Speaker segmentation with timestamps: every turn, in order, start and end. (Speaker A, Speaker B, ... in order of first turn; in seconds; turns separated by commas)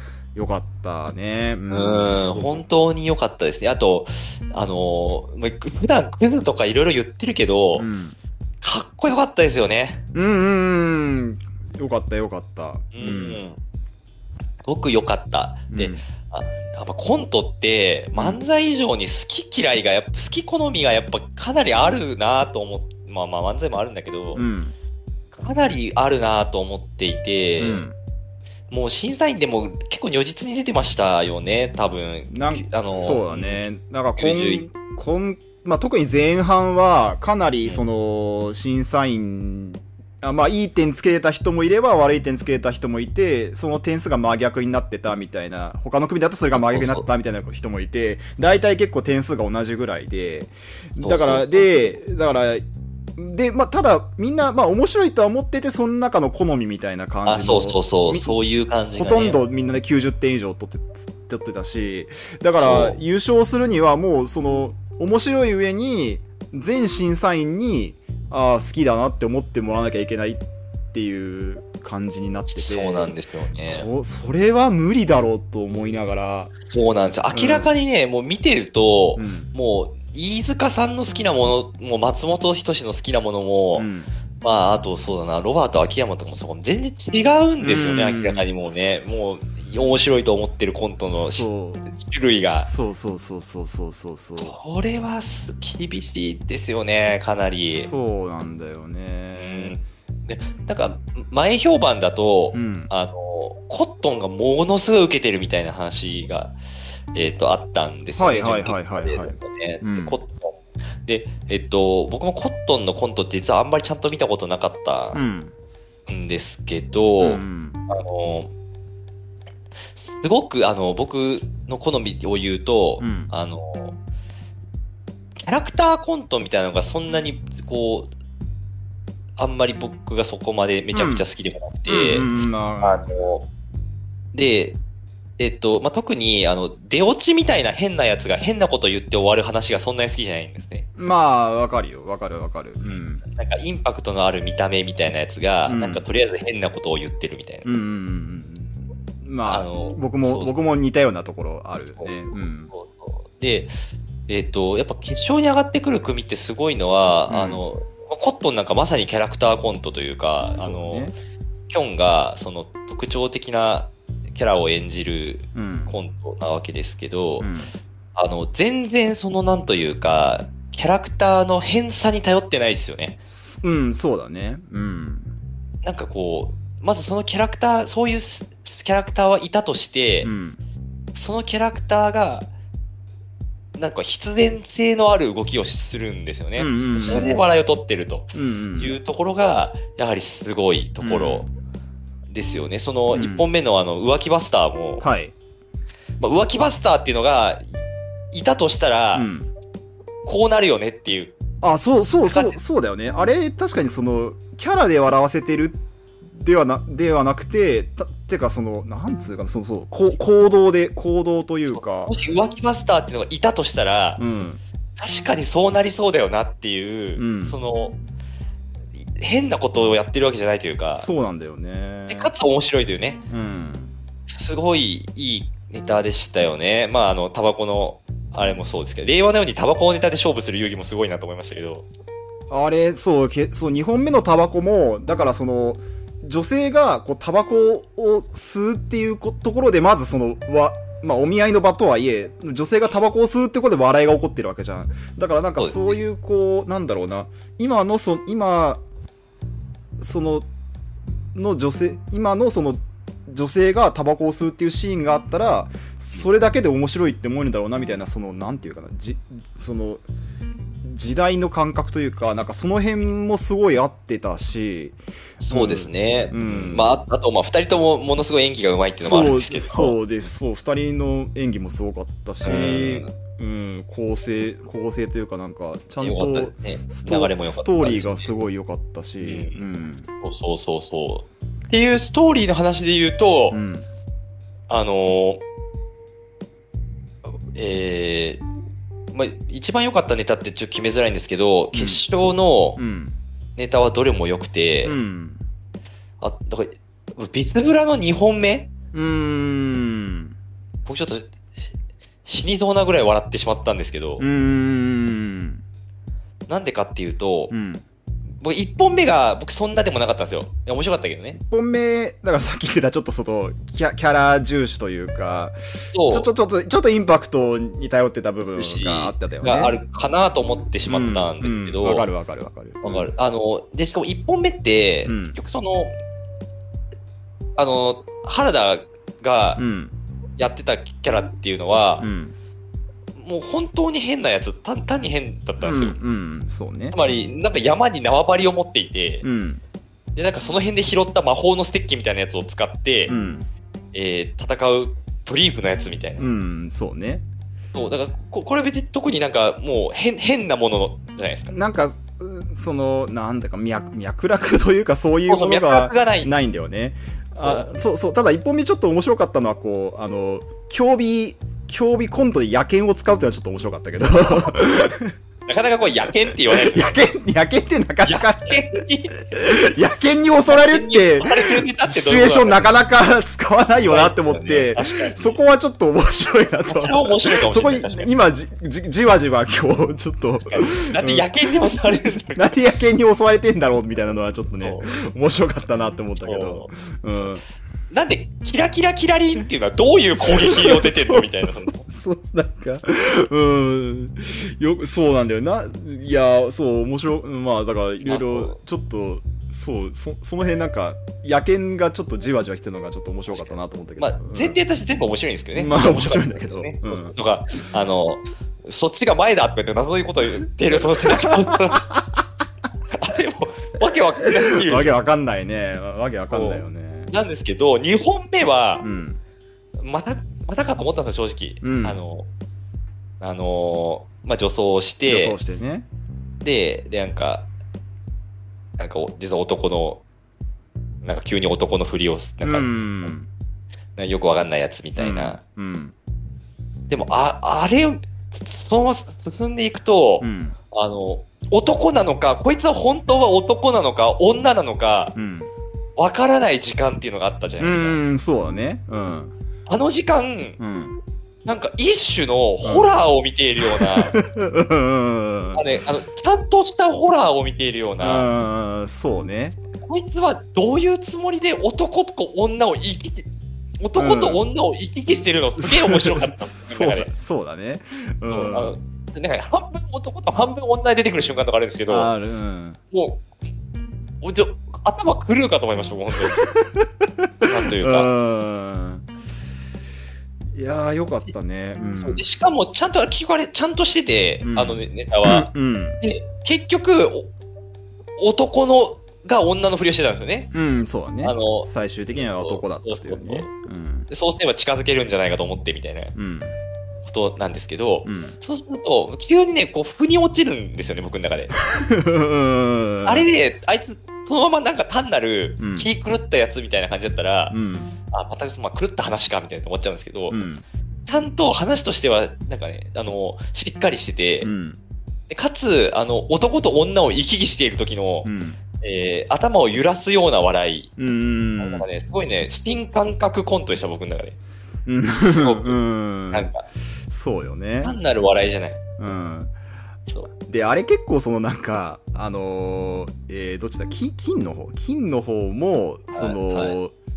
Speaker A: 0.3-2.6, Speaker B: 1.7-7.9, Speaker A: 7.8-8.2, Speaker B: 8.6-10.0, Speaker A: 10.1-13.4, Speaker B: 12.9-13.6, Speaker B: 14.6-24.4, Speaker A: 15.7-16.0, Speaker A: 24.3-24.7, Speaker B: 25.3-27.9, Speaker A: 27.6-27.9, Speaker B: 28.7-33.6, Speaker A: 32.3-52.6, Speaker B: 34.2-34.6, Speaker B: 46.5-47.0, Speaker B: 51.0-51.7, Speaker A: 53.2-58.4, Speaker B: 57.2-59.4, Speaker A: 58.9-73.1, Speaker B: 62.5-63.0, Speaker B: 72.5-73.9, Speaker A: 73.7-76.5, Speaker B: 76.7-83.9, Speaker A: 77.3-77.7, Speaker A: 79.2-79.5, Speaker A: 83.8-84.1, Speaker B: 84.4-92.7, Speaker A: 87.6-88.8, Speaker A: 91.1-91.9, Speaker A: 92.6-94.5, Speaker B: 94.4-97.9, Speaker A: 97.7-99.8, Speaker B: 99.3-106.5, Speaker A: 102.5-102.9, Speaker B: 107.1-115.2, Speaker A: 108.2-110.2, Speaker A: 115.1-115.5, Speaker B: 116.1-118.5, Speaker A: 117.2-117.8, Speaker B: 119.9-124.0, Speaker A: 123.0-123.3, Speaker B: 125.4-128.1, Speaker B: 129.4-132.3, Speaker A: 130.9-131.2, Speaker A: 131.9-133.2, Speaker B: 132.8-133.4, Speaker B: 134.3-134.8, Speaker B: 135.4-140.9, Speaker A: 141.0-143.2, Speaker B: 142.8-147.7, Speaker A: 145.7-146.0, Speaker A: 147.6-152.7, Speaker B: 149.4-150.5, Speaker B: 151.9-153.7, Speaker B: 154.3-161.1, Speaker A: 157.3-157.6, Speaker A: 160.6-161.1, Speaker B: 161.7-167.5, Speaker A: 165.5-165.9, Speaker A: 167.4-167.7, Speaker B: 168.1-173.2, Speaker A: 173.3-175.3, Speaker B: 175.8-180.3, Speaker A: 180.2-180.6, Speaker B: 181.1-182.5, Speaker B: 183.8-191.5, Speaker A: 186.6-187.4, Speaker A: 188.3-189.0, Speaker A: 191.0-191.5, Speaker B: 192.3-195.1, Speaker A: 193.1-193.5, Speaker A: 195.0-195.3, Speaker B: 196.2-197.7, Speaker B: 198.3-199.3, Speaker A: 199.1-199.5, Speaker B: 200.2-201.3, Speaker A: 201.6-205.8, Speaker B: 202.2-202.6, Speaker A: 206.3-212.1, Speaker B: 211.8-214.2, Speaker A: 214.2-214.6, Speaker B: 215.0-217.9, Speaker A: 217.2-217.6, Speaker B: 219.2-221.1, Speaker A: 221.0-222.3, Speaker B: 222.1-223.2, Speaker A: 223.3-223.9, Speaker B: 224.3-231.8, Speaker A: 232.5-248.8, Speaker B: 245.6-246.0, Speaker A: 250.0-250.5, Speaker A: 251.3-260.0, Speaker A: 260.8-265.0, Speaker B: 265.4-270.0, Speaker A: 265.5-266.9, Speaker A: 269.0-280.1, Speaker B: 272.4-273.1, Speaker B: 276.0-278.3, Speaker B: 279.2-279.6, Speaker B: 280.2-283.6, Speaker A: 283.5-283.9, Speaker B: 284.7-285.4, Speaker B: 287.5-288.4, Speaker B: 289.1-292.8, Speaker A: 291.7-292.0, Speaker A: 292.8-293.2, Speaker B: 293.6-295.0, Speaker A: 294.8-295.4, Speaker B: 296.2-298.7, Speaker A: 298.9-300.3, Speaker B: 300.9-301.3, Speaker B: 302.2-304.2, Speaker A: 304.2-305.6, Speaker B: 306.5-307.5, Speaker A: 307.5-307.8, Speaker B: 308.4-311.4, Speaker A: 311.3-315.6, Speaker B: 315.8-316.3, Speaker A: 316.1-319.7, Speaker B: 318.6-322.1, Speaker A: 320.9-323.1, Speaker B: 322.8-325.9, Speaker A: 325.1-325.4, Speaker B: 327.6-329.6, Speaker A: 329.6-329.9, Speaker B: 330.4-332.1, Speaker A: 332.0-332.3, Speaker B: 333.2-336.0, Speaker A: 335.6-337.0, Speaker B: 336.9-339.2, Speaker A: 339.2-339.6, Speaker B: 340.1-343.1, Speaker A: 343.1-343.5, Speaker B: 343.9-346.3, Speaker A: 346.2-347.2, Speaker B: 347.7-351.5, Speaker A: 351.5-365.1, Speaker B: 355.3-356.3, Speaker B: 357.4-357.7, Speaker B: 365.4-367.1, Speaker A: 366.5-381.3, Speaker B: 368.0-369.3, Speaker B: 370.4-372.7, Speaker B: 373.8-375.4, Speaker B: 376.7-378.1, Speaker B: 380.5-382.5, Speaker A: 382.3-387.4, Speaker B: 384.6-384.9, Speaker B: 386.2-387.3, Speaker B: 387.9-391.9, Speaker A: 390.2-404.6, Speaker B: 398.0-398.6, Speaker B: 403.3-411.9, Speaker A: 405.5-407.1, Speaker A: 410.7-412.0, Speaker B: 412.9-415.0, Speaker A: 414.5-417.1, Speaker B: 416.3-418.9, Speaker A: 418.8-419.2, Speaker B: 419.8-422.3, Speaker A: 421.6-422.0, Speaker B: 423.2-425.4, Speaker A: 425.1-425.9, Speaker B: 426.4-427.5, Speaker B: 428.8-430.0, Speaker B: 431.0-432.7, Speaker A: 432.4-433.3, Speaker B: 433.9-435.4, Speaker A: 435.0-435.9, Speaker B: 436.9-445.1, Speaker A: 440.2-440.6, Speaker A: 445.1-445.5, Speaker B: 446.0-448.0, Speaker A: 447.6-449.3, Speaker B: 449.7-450.6, Speaker A: 450.6-451.0, Speaker B: 451.4-454.2, Speaker A: 452.6-452.9, Speaker A: 453.6-455.6, Speaker B: 455.5-458.3, Speaker A: 458.0-459.6, Speaker B: 459.8-463.3, Speaker B: 463.8-467.1, Speaker A: 463.9-464.4, Speaker A: 465.6-468.7, Speaker B: 468.3-472.1, Speaker A: 471.9-472.8, Speaker B: 472.9-473.2, Speaker B: 474.2-476.5, Speaker A: 476.3-479.1, Speaker B: 477.4-478.1, Speaker A: 480.5-482.2, Speaker B: 482.0-485.5, Speaker A: 484.4-486.0, Speaker B: 486.0-487.3, Speaker B: 488.2-490.5, Speaker A: 490.5-494.1, Speaker B: 491.2-493.5, Speaker B: 494.1-496.1, Speaker A: 496.1-496.5, Speaker B: 497.1-501.5, Speaker A: 498.0-498.4, Speaker A: 501.6-503.3, Speaker B: 503.0-507.6, Speaker A: 505.6-505.9, Speaker A: 507.5-507.9, Speaker B: 508.1-510.4, Speaker A: 510.3-510.6, Speaker B: 511.1-514.5, Speaker A: 514.4-514.8, Speaker B: 515.3-518.3, Speaker A: 518.2-518.6, Speaker B: 518.8-520.9, Speaker A: 521.0-521.8, Speaker B: 521.6-524.4, Speaker A: 524.9-526.5, Speaker B: 525.1-525.8, Speaker B: 526.3-526.6, Speaker A: 527.1-528.0, Speaker B: 527.8-528.8, Speaker A: 529.0-529.5, Speaker A: 530.5-536.9, Speaker B: 536.1-536.8